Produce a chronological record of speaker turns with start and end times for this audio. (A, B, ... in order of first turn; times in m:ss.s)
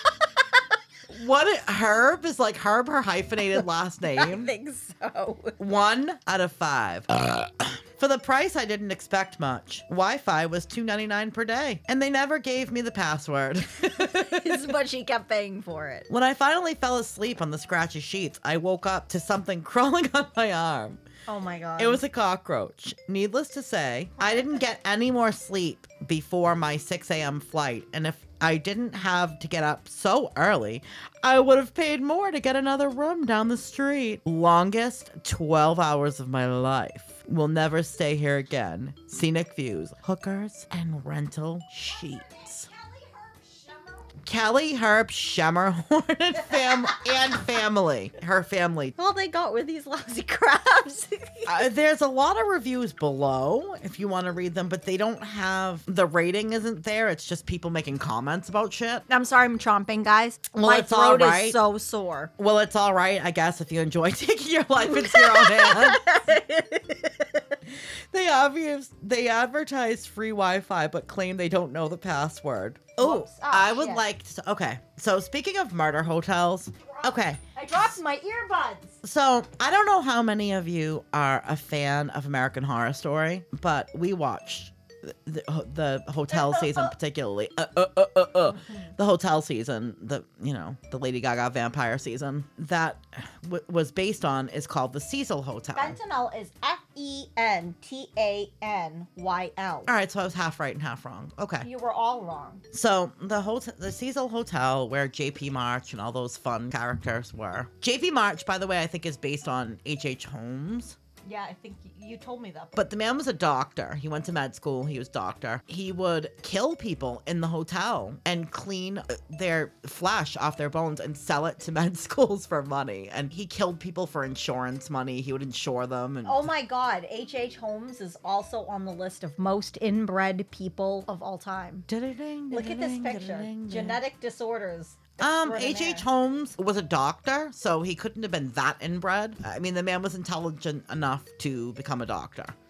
0:01.1-0:04.5 A
0:04.1-0:05.6 B
0:05.6-0:14.7 A
0:14.0-0:16.1 B
0:16.1-0:21.0 A
0:21.3-0:22.0 B
0:21.8-0:42.7 A
0:41.9-0:44.1 B
0:44.2-0:48.9 A
0:46.5-0:47.1 B
0:49.0-0:51.6 B
0:51.4-0:59.0 A
0:59.1-1:02.3 B
1:00.5-1:01.6 A
1:02.4-1:06.4 A
1:04.8-1:07.6 B
1:07.7-1:17.8 A
1:13.0-1:14.0 B
1:16.9-1:19.0 B
1:19.0-1:36.0 A
1:26.3-1:26.9 B
1:35.7-1:39.9 B
1:39.9-1:41.7 A
1:41.6-1:42.6 B
1:42.7-1:51.0 A
1:51.2-1:52.8 B
1:52.8-2:06.5 A
2:06.2-2:11.9 B
2:11.9-2:14.0 A
2:12.5-2:16.0 B
2:15.2-2:22.5 A